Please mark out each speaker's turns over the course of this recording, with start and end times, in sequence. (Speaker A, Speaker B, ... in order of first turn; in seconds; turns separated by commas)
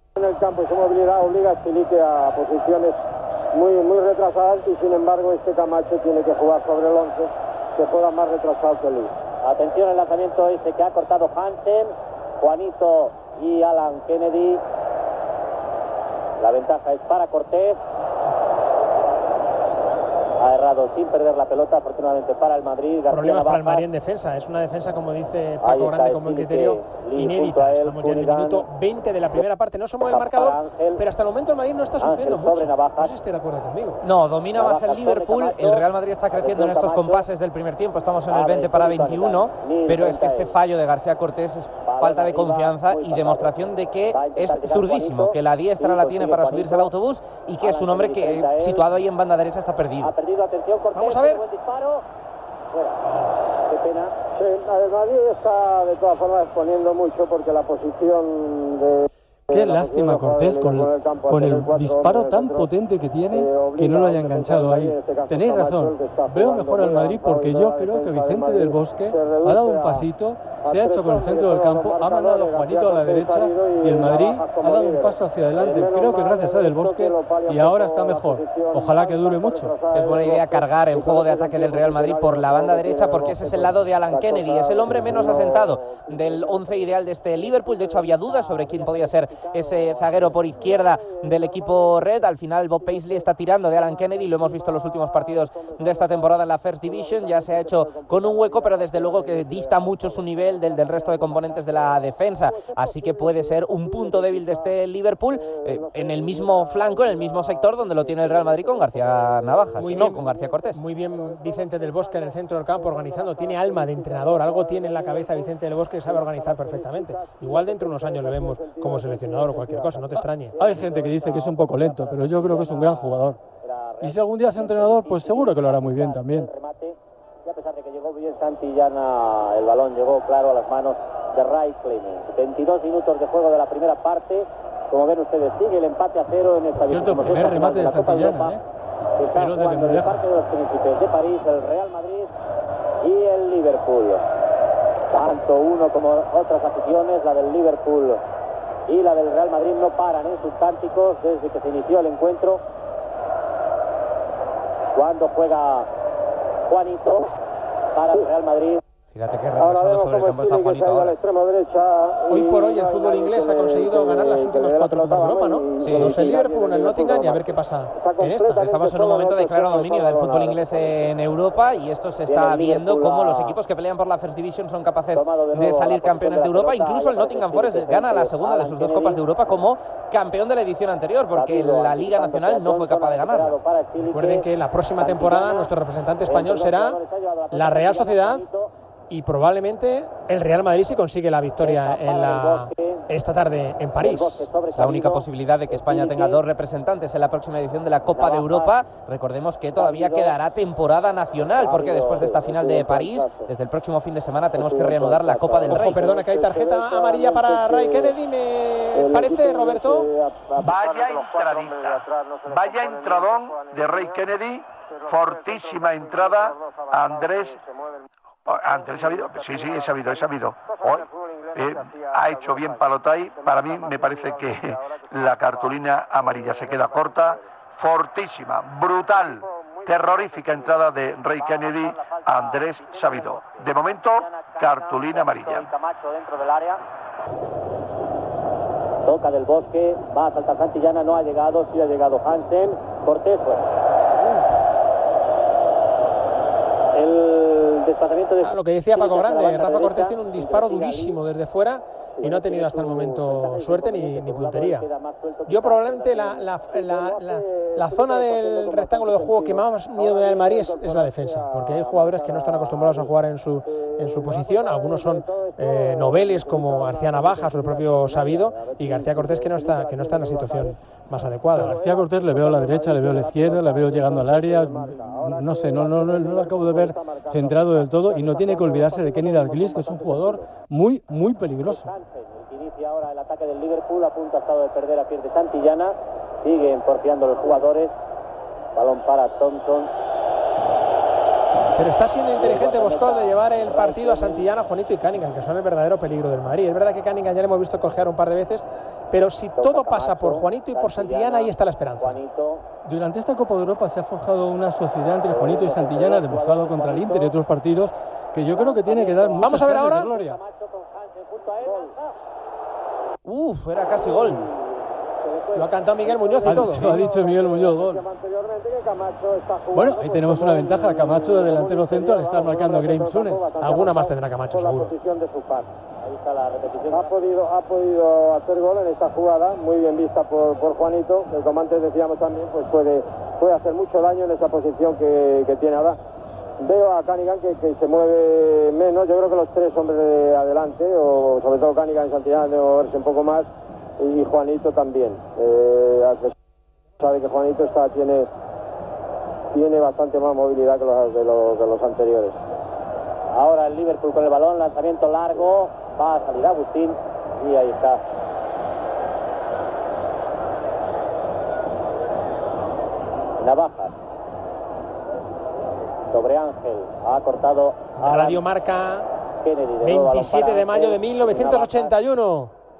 Speaker A: 0.1-3.0, Speaker A: 3.5-9.1, Speaker B: 9.4-14.6, Speaker B: 16.4-17.8, Speaker B: 20.4-23.9, Speaker C: 23.1-34.0, Speaker B: 25.6-28.7, Speaker B: 30.0-31.0, Speaker B: 32.0-33.1, Speaker D: 34.0-50.1, Speaker B: 34.5-37.3, Speaker B: 38.3-40.5, Speaker B: 41.8-46.9, Speaker B: 47.6-48.9, Speaker B: 50.0-52.0, Speaker C: 50.9-51.4, Speaker B: 52.7-53.0, Speaker C: 53.0-53.5, Speaker B: 53.7-54.1, Speaker A: 54.4-62.7, Speaker E: 59.5-79.7, Speaker A: 63.3-70.1, Speaker A: 70.6-120.9, Speaker D: 79.9-110.8, Speaker C: 109.8-120.6, Speaker B: 120.5-138.6, Speaker E: 120.6-123.4, Speaker E: 124.0-126.5, Speaker E: 136.8-138.6, Speaker B: 139.2-142.3, Speaker E: 139.3-140.3, Speaker B: 143.0-144.2, Speaker B: 145.1-148.2, Speaker B: 148.9-152.6, Speaker B: 154.9-155.9, Speaker B: 156.7-157.3, Speaker B: 157.9-158.8, Speaker D: 159.1-161.2, Speaker A: 159.6-171.1, Speaker C: 162.3-168.6, Speaker D: 165.8-166.3, Speaker D: 168.5-183.6, Speaker B: 172.3-173.6, Speaker B: 175.1-179.2, Speaker B: 181.3-185.7, Speaker C: 184.0-187.0, Speaker B: 186.2-188.7, Speaker C: 187.5-188.5, Speaker C: 189.1-194.5, Speaker B: 191.6-193.1, Speaker B: 194.0-196.4, Speaker D: 194.7-206.0, Speaker B: 198.1-198.8, Speaker B: 199.7-200.4, Speaker B: 201.6-202.5, Speaker A: 202.2-203.5, Speaker A: 204.6-208.2, Speaker C: 205.7-210.1, Speaker A: 208.9-214.3, Speaker F: 210.6-217.6, Speaker A: 214.9-227.4, Speaker F: 218.4-235.7, Speaker A: 229.0-230.8, Speaker B: 231.3-236.8, Speaker B: 239.0-243.6, Speaker B: 246.9-251.2, Speaker C: 248.4-254.9, Speaker A: 252.2-253.2, Speaker B: 253.2-256.5, Speaker C: 255.5-271.8, Speaker A: 256.7-263.1, Speaker A: 263.6-270.8, Speaker A: 271.5-280.5, Speaker E: 271.6-281.9, Speaker B: 281.6-287.9, Speaker B: 288.7-289.9, Speaker C: 291.8-302.2, Speaker B: 292.4-294.5, Speaker B: 299.5-302.6, Speaker E: 302.9-310.4, Speaker B: 305.3-307.4, Speaker B: 308.5-312.1, Speaker C: 309.4-310.1, Speaker A: 311.6-311.9, Speaker D: 313.2-314.5, Speaker A: 313.9-314.5, Speaker A: 315.3-325.7, Speaker C: 315.5-317.0, Speaker E: 316.4-318.0, Speaker E: 319.7-323.5, Speaker C: 323.6-324.9, Speaker B: 326.0-327.3, Speaker A: 326.9-336.0, Speaker A: 336.6-343.5, Speaker A: 344.0-346.3, Speaker A: 347.0-348.3, Speaker A: 349.5-352.4, Speaker B: 353.3-358.0, Speaker B: 363.4-363.9, Speaker B: 366.1-368.4, Speaker C: 368.0-369.1, Speaker B: 369.4-372.0, Speaker C: 369.8-372.5